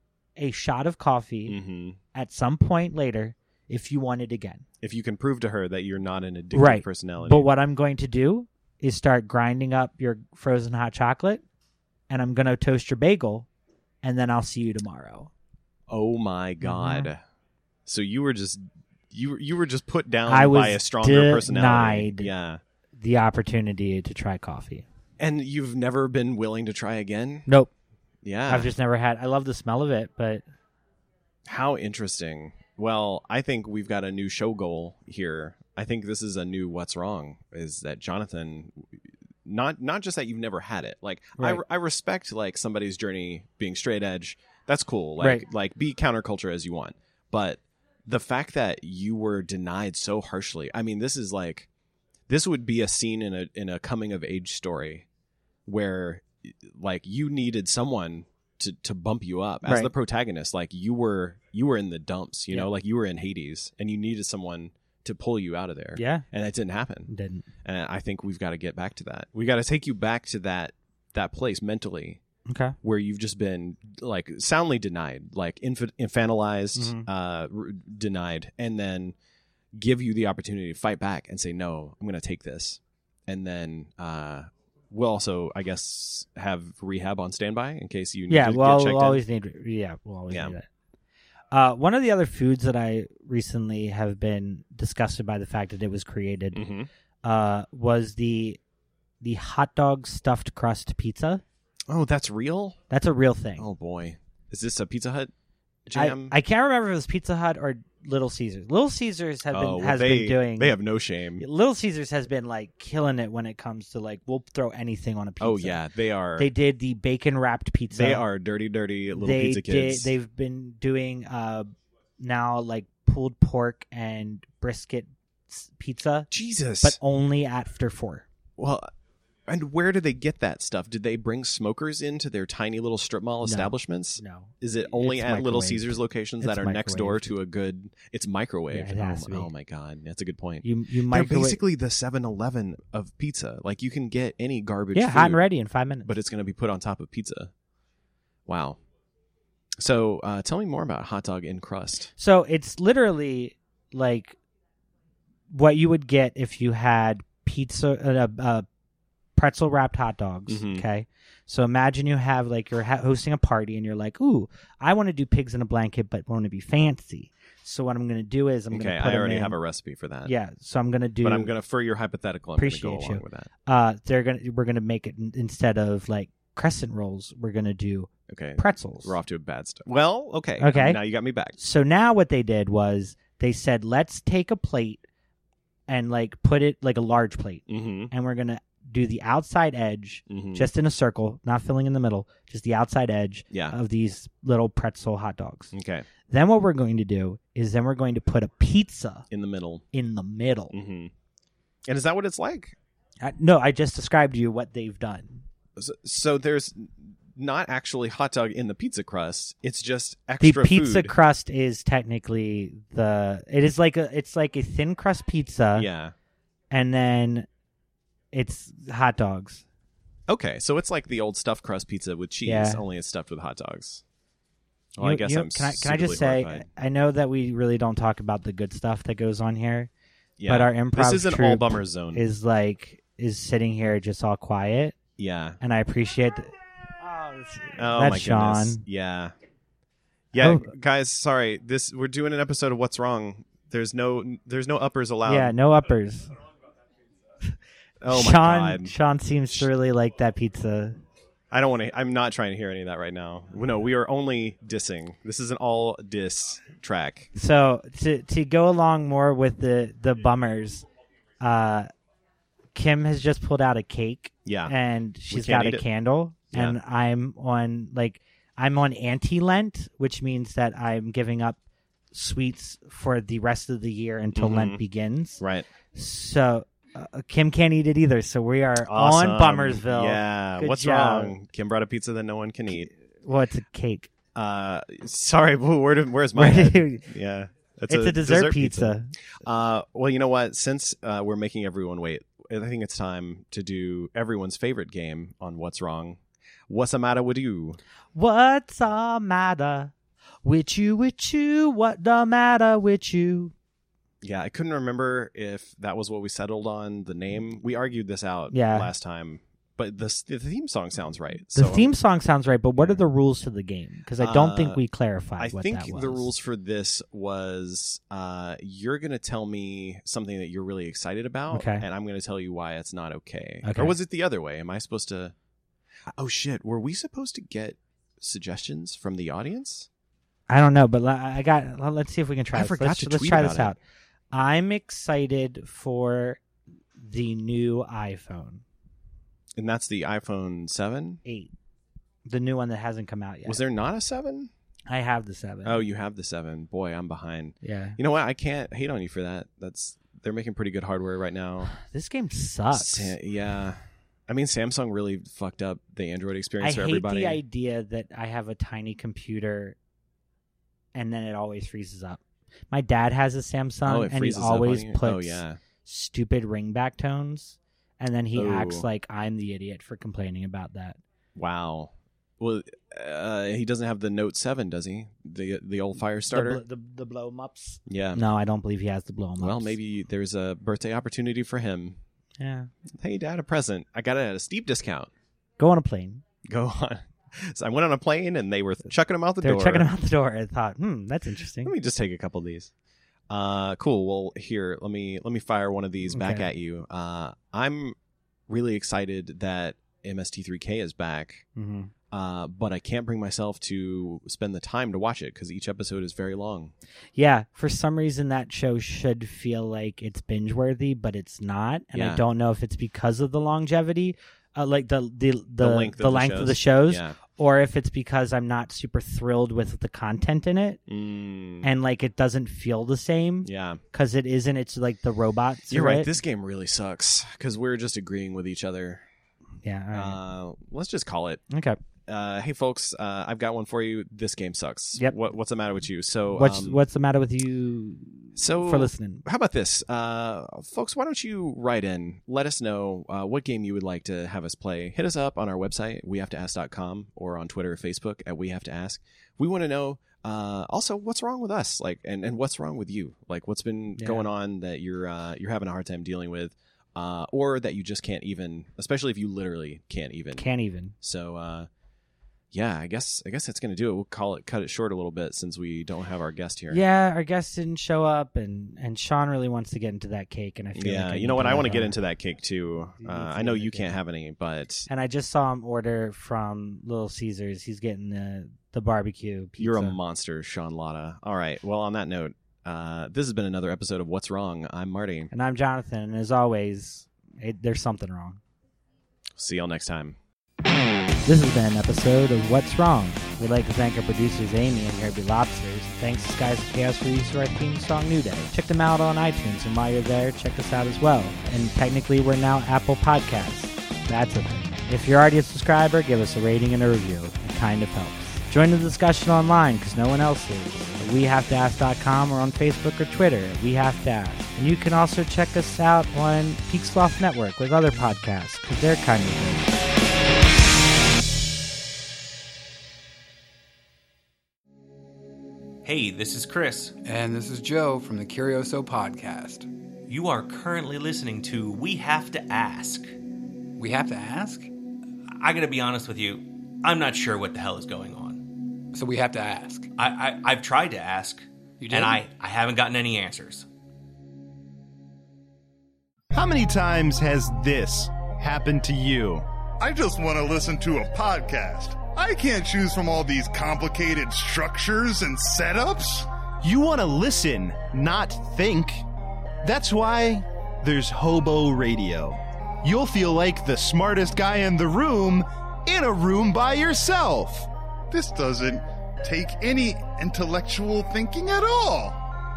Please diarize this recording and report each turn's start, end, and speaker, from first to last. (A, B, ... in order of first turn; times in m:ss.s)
0:00.4-0:01.6 A
0:01.4-0:02.0 B
0:02.1-0:04.6 A
0:04.8-0:07.5 B
0:06.5-0:11.4 A
0:12.1-0:13.5 A
0:14.0-0:15.3 A
0:15.9-0:17.2 B
0:16.6-0:17.1 A
0:17.8-0:22.6 B
0:20.2-0:22.3 A
0:23.0-0:24.8 A
0:25.2-0:27.5 B
0:27.5-0:27.7 A
0:28.2-0:28.7 B
0:28.5-0:30.4 A
0:31.4-0:51.7 B
0:41.4-0:41.6 A
0:45.2-0:45.4 A
0:52.3-0:55.0 B
0:55.6-1:07.1 B
0:59.6-0:59.9 A
1:06.0-1:06.2 A
1:07.1-1:07.4 A
1:07.6-1:12.2 B
1:12.5-1:12.7 A
1:12.8-1:19.2 B
1:16.7-1:17.1 A
1:19.7-1:29.2 B
1:28.3-1:30.7 A
1:30.3-1:30.6 B
1:31.5-1:36.7 A
1:36.5-1:36.9 B
1:37.2-1:38.6 A
1:39.2-1:41.4 A
1:41.9-1:42.8 B
1:42.9-1:43.7 A
1:43.6-1:45.3 B
1:45.9-1:46.4 B
1:45.9-1:50.8 A
1:49.5-1:51.4 B
1:51.4-1:55.8 A
1:55.4-1:56.5 B
1:56.4-1:58.2 A
1:57.9-2:00.1 B
1:59.1-2:06.3 A
2:06.3-2:07.0 B
2:06.8-2:08.3 A
2:08.6-2:08.9 B
2:09.5-2:25.4 B
2:13.4-2:17.3 A
2:18.7-2:19.5 A
2:20.6-2:21.6 A
2:24.9-2:26.1 A
2:26.0-2:27.5 B
2:28.5-2:28.8 B
2:29.8-2:32.1 B
2:32.2-2:34.4 A
2:35.5-2:38.6 A
2:39.4-2:49.6 A
2:40.5-2:40.8 B
2:48.7-2:50.3 B
2:50.2-2:51.5 A
2:51.2-2:53.5 B
2:52.6-2:59.1 A
2:58.3-3:01.6 B
3:00.6-3:01.0 A
3:01.5-3:05.0 A
3:05.9-3:15.7 A
3:07.7-3:08.1 B
3:10.3-3:10.7 B
3:13.5-3:13.8 B
3:15.7-3:16.1 B
3:16.3-3:19.3 A
3:19.3-3:19.8 B
3:19.9-3:20.7 A
3:20.7-3:21.1 B
3:21.8-3:22.8 B
3:23.2-3:25.4 A
3:25.8-3:31.2 B
3:30.4-3:35.9 A
3:35.7-3:36.1 B
3:36.7-3:37.5 A
3:38.3-3:39.6 A
3:40.3-3:44.0 B
3:42.4-3:42.8 A
3:45.0-3:46.7 B
3:45.0-3:49.9 A
3:50.4-3:52.2 B
3:50.5-3:54.9 A
3:55.2-3:55.6 B
3:55.6-3:58.8 A
3:57.8-3:59.3 B
4:00.3-4:05.6 B
4:00.4-4:00.7 A
4:05.2-4:06.3 A
4:08.0-4:08.9 B
4:08.1-4:11.0 A
4:11.5-4:17.3 B
4:17.3-4:20.8 A
4:21.4-4:21.9 A
4:22.7-4:31.6 A
4:24.4-4:24.7 B
4:25.3-4:25.8 B
4:26.5-4:26.8 B
4:32.1-4:35.4 A
4:34.3-4:34.8 B
4:35.4-4:35.7 B
4:35.9-4:41.3 A
4:38.8-4:42.9 B
4:43.2-4:44.1 A
4:44.3-4:57.8 B
4:46.3-4:47.1 A
4:47.9-4:49.1 A
4:58.1-4:59.9 A
5:00.4-5:03.5 A
5:04.2-5:11.9 B
5:08.5-5:08.9 A
5:11.5-5:16.3 A
5:12.8-5:13.0 B
5:14.2-5:14.8 B
5:15.4-5:25.3 B
5:21.5-5:21.8 A
5:23.6-5:23.9 A
5:26.1-5:29.9 B
5:30.5-5:33.8 A
5:32.5-5:33.7 B
5:34.3-5:36.4 A
5:37.0-5:38.6 A
5:39.6-5:41.2 B
5:41.2-5:41.5 A
5:42.2-5:43.6 A
5:43.4-5:44.5 B
5:44.9-5:45.8 A
5:45.6-5:51.7 B
5:47.6-5:48.0 A
5:51.7-5:53.1 A
5:52.7-5:57.4 B
5:56.6-5:59.8 A
6:00.9-6:11.0 A
6:03.8-6:05.6 B
6:08.3-6:08.9 B
6:11.4-6:16.6 B
6:16.3-6:19.8 A
6:17.9-6:18.2 B
6:19.4-6:22.0 B
6:22.4-6:22.7 A
6:22.9-6:25.1 B
6:25.6-6:26.2 A
6:26.4-6:29.9 B
6:29.4-6:31.7 A
6:31.6-6:32.7 B
6:33.3-6:38.0 B
6:36.1-6:36.5 A
6:38.5-6:41.4 B
6:41.6-6:41.9 A
6:42.1-6:46.7 B
6:47.1-7:00.8 A
6:51.9-6:52.2 B
6:55.6-6:57.2 B
7:00.9-7:01.7 B
7:01.6-7:06.1 A
7:03.4-7:03.8 B
7:05.7-7:09.0 B
7:09.6-7:10.2 A
7:09.9-7:11.4 B
7:11.5-7:11.8 A
7:12.1-7:16.8 B
7:16.3-7:19.2 A
7:18.3-7:40.5 B
7:34.0-7:34.2 A
7:40.3-7:40.9 A
7:41.0-7:41.7 B
7:42.5-7:46.8 B
7:46.7-7:51.9 A
7:50.7-7:54.9 B
7:53.0-7:53.9 A
7:54.9-8:00.0 A
7:59.6-8:05.3 B
8:05.3-8:08.4 A
8:09.3-8:10.2 B
8:11.2-8:39.7 A
8:45.8-8:47.0 C
8:47.0-8:49.7 D
8:50.1-8:53.1 C
8:53.8-8:54.7 D
8:55.3-8:58.5 C
8:58.9-8:59.9 D
9:00.0-9:03.7 C
9:01.8-9:02.3 D
9:06.3-9:09.4 E
9:09.8-9:16.3 F
9:16.6-9:19.0 E
9:19.6-9:27.7 E
9:28.1-9:32.2 F